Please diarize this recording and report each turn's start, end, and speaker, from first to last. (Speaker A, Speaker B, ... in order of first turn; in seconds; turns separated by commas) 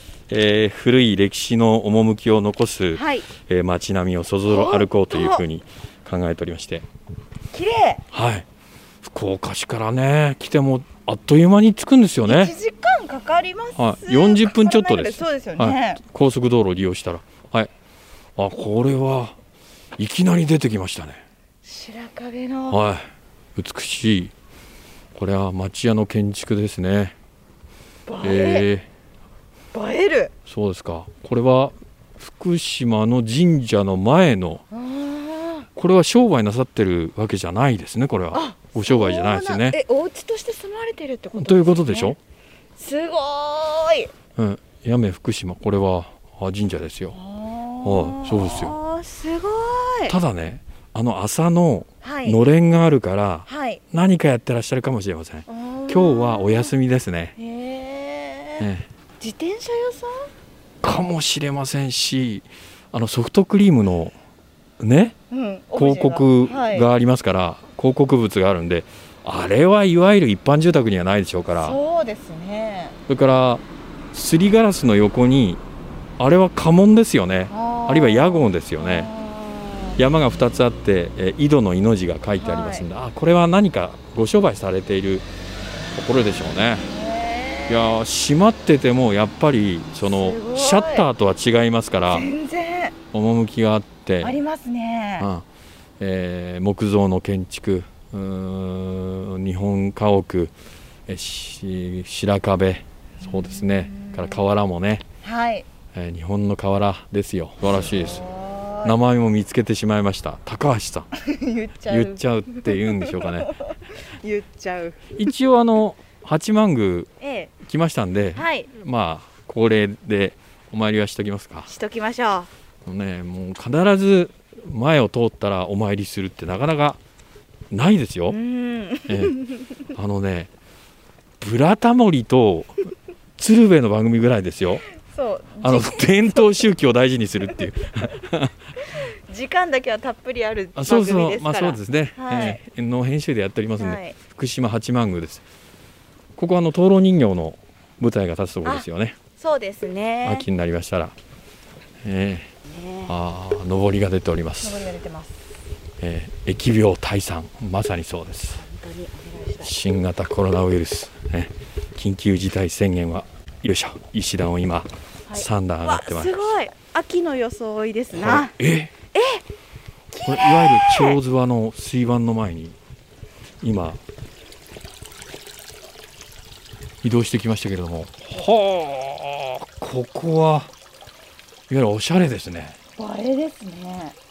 Speaker A: 0.3-6.9, Speaker B: 2.9-3.3, Speaker B: 4.5-5.4, Speaker B: 7.5-8.0, Speaker A: 8.1-8.4, Speaker A: 9.0-12.5, Speaker B: 12.2-16.0, Speaker A: 13.8-17.7, Speaker A: 18.4-19.4, Speaker A: 20.0-21.2, Speaker B: 21.6-22.8, Speaker A: 22.7-24.3, Speaker A: 25.1-27.1, Speaker B: 28.1-28.7, Speaker A: 28.2-28.9, Speaker B: 29.7-30.3, Speaker A: 30.4-34.6, Speaker B: 34.7-35.7, Speaker A: 35.8-39.8, Speaker B: 38.3-42.1, Speaker A: 41.4-42.2, Speaker B: 42.8-44.1, Speaker A: 44.4-47.1, Speaker B: 47.1-50.1, Speaker A: 47.8-48.7, Speaker A: 50.1-57.3, Speaker B: 52.0-52.4, Speaker B: 53.5-53.8, Speaker B: 55.5-56.7, Speaker B: 57.4-58.7, Speaker A: 58.6-58.9, Speaker B: 59.2-60.3, Speaker A: 60.8-64.1, Speaker A: 64.8-65.2, Speaker B: 65.3-66.9, Speaker A: 65.8-71.8, Speaker B: 71.5-73.0, Speaker A: 73.1-75.6, Speaker A: 76.2-79.1, Speaker B: 77.5-80.0, Speaker A: 80.0-85.3, Speaker B: 82.4-82.8, Speaker A: 85.9-86.9, Speaker B: 86.8-87.9, Speaker A: 87.7-92.3, Speaker B: 90.0-91.0, Speaker B: 92.1-92.9, Speaker A: 93.1-94.4, Speaker B: 94.2-95.3, Speaker A: 95.2-95.5, Speaker A: 96.0-100.5, Speaker A: 101.1-105.0, Speaker B: 103.2-104.4, Speaker B: 105.2-105.7, Speaker A: 105.9-108.2, Speaker B: 107.7-108.9, Speaker A: 108.8-111.1, Speaker B: 111.2-115.1, Speaker A: 111.9-113.5, Speaker A: 115.1-117.1, Speaker B: 117.2-117.5, Speaker A: 117.6-121.7, Speaker B: 118.3-118.7, Speaker B: 121.7-122.5, Speaker A: 122.8-127.0, Speaker A: 127.7-128.4, Speaker B: 128.3-129.7, Speaker A: 129.1-129.4, Speaker A: 129.9-130.5, Speaker A: 131.4-132.8, Speaker A: 133.4-134.8, Speaker B: 135.0-136.5, Speaker A: 135.6-138.6, Speaker B: 138.8-142.6, Speaker A: 140.7-145.4, Speaker B: 143.8-144.2, Speaker A: 146.3-149.2, Speaker B: 149.4-150.4, Speaker A: 150.2-151.1, Speaker A: 152.0-152.5, Speaker B: 152.7-153.1, Speaker A: 153.1-154.8, Speaker B: 154.6-155.4, Speaker A: 156.0-158.6, Speaker B: 158.6-159.7, Speaker A: 159.6-166.5, Speaker B: 165.3-168.5, Speaker A: 168.1-168.9, Speaker B: 169.1-169.4, Speaker B: 170.1-171.2, Speaker A: 170.2-172.8, Speaker A: 173.6-174.0, Speaker A: 177.0-180.7, Speaker A: 181.7-182.8, Speaker B: 183.0-184.2